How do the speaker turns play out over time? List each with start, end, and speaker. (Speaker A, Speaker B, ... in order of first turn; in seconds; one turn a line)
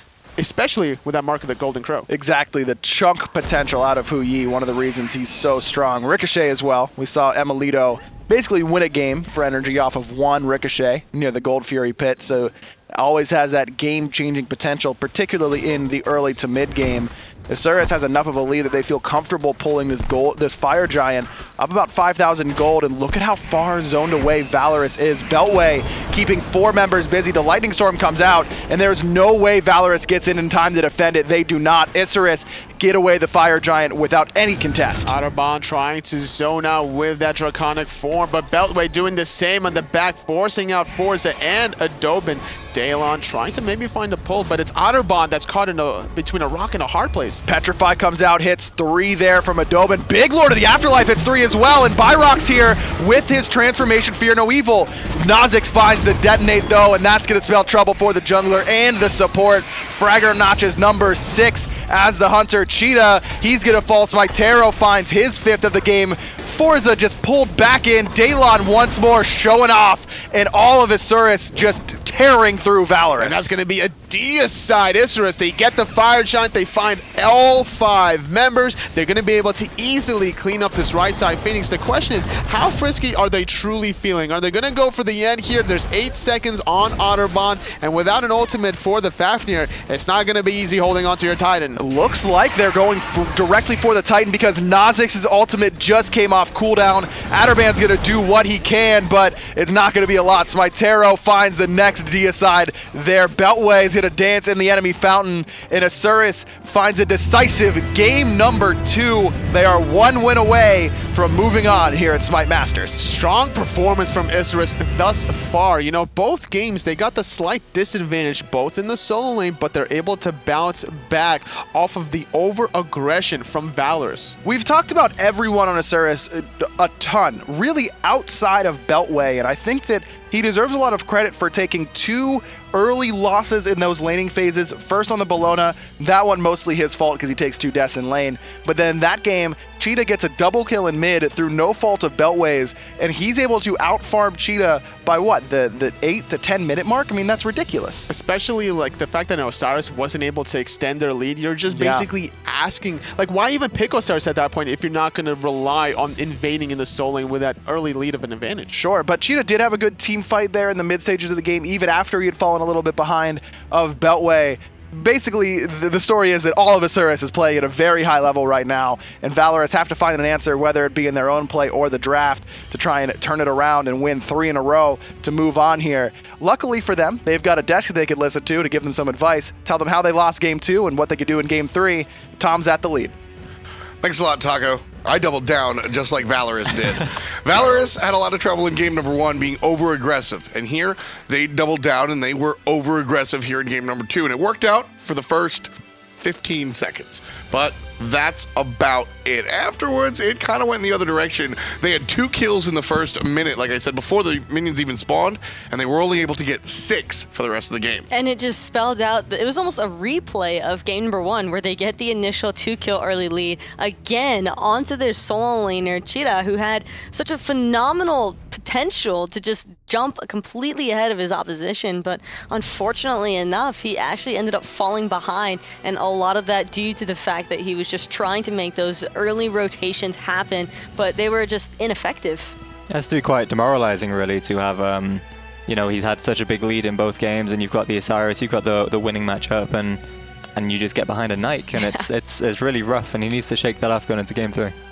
Speaker A: 0.4-2.1
Speaker B: 2.1-35.1
Speaker A: 35.0-47.4
Speaker B: 47.5-73.5
Speaker A: 73.2-91.8
Speaker B: 91.8-113.0
Speaker A: 112.9-124.4
Speaker B: 124.4-148.1
Speaker A: 148.1-158.7
Speaker B: 151.7-152.1
Speaker B: 158.7-183.1
Speaker C: 184.0-208.1
Speaker D: 208.1-232.5
Speaker E: 232.9-240.0
Speaker E: 240.5-244.7